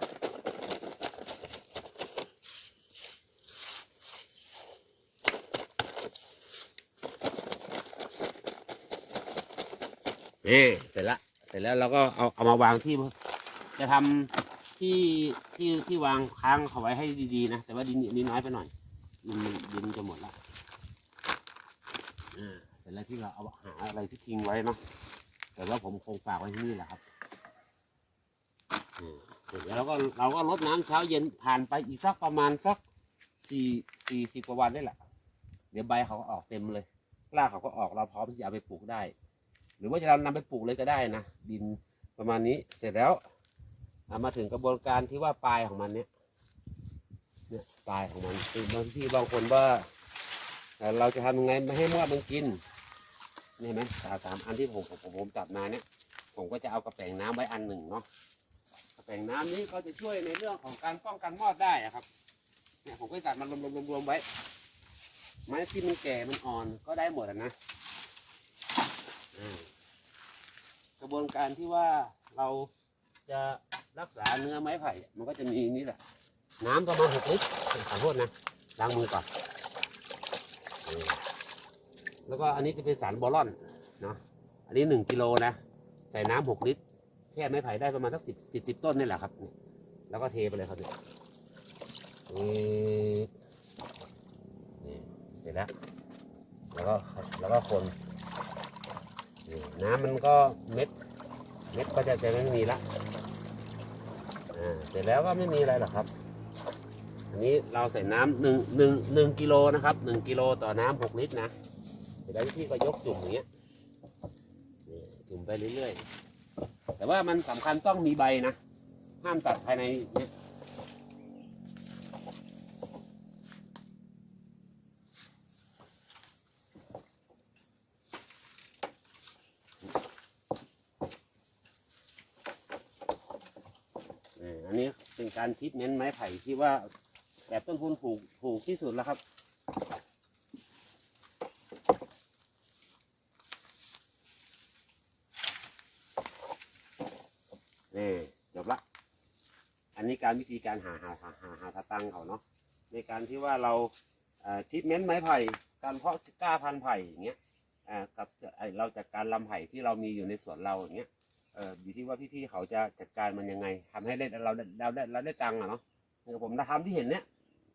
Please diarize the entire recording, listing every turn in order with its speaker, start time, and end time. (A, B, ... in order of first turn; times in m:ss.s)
0:10.4-0:13.1 A
0:13.8-0:18.7 A
0:19.2-0:20.4 A
0:22.3-0:24.8 A
0:25.6-0:27.0 A
0:29.0-0:32.8 A
0:33.4-0:35.0 A
0:35.7-0:39.1 A
0:39.8-0:43.2 A
0:44.1-0:46.1 A
0:47.5-0:49.9 A
0:50.8-0:52.6 A
0:53.6-0:55.8 A
0:56.3-0:58.0 A
0:59.0-1:02.1 A
1:02.8-1:04.2 A
1:05.5-1:07.5 A
1:09.3-1:09.7 A
1:11.0-1:12.7 A
1:13.3-1:16.0 A
1:16.6-1:19.3 A
1:20.8-1:21.2 A
1:22.3-1:25.6 A
1:26.1-1:26.8 A
1:27.3-1:29.5 A
1:30.1-1:30.9 A
1:32.3-1:33.3 A
1:34.8-1:35.7 A
1:36.7-1:37.9 A
1:39.4-1:40.9 A
1:41.7-1:42.8 A
1:44.5-1:46.1 A
1:47.3-1:51.5 A
1:52.2-1:53.4 A
1:54.8-1:56.0 A
1:57.0-1:58.6 A
1:59.2-2:00.3 A
2:14.4-2:16.9 A
2:17.5-2:19.2 A
2:27.9-2:28.8 A
2:30.0-2:47.2 A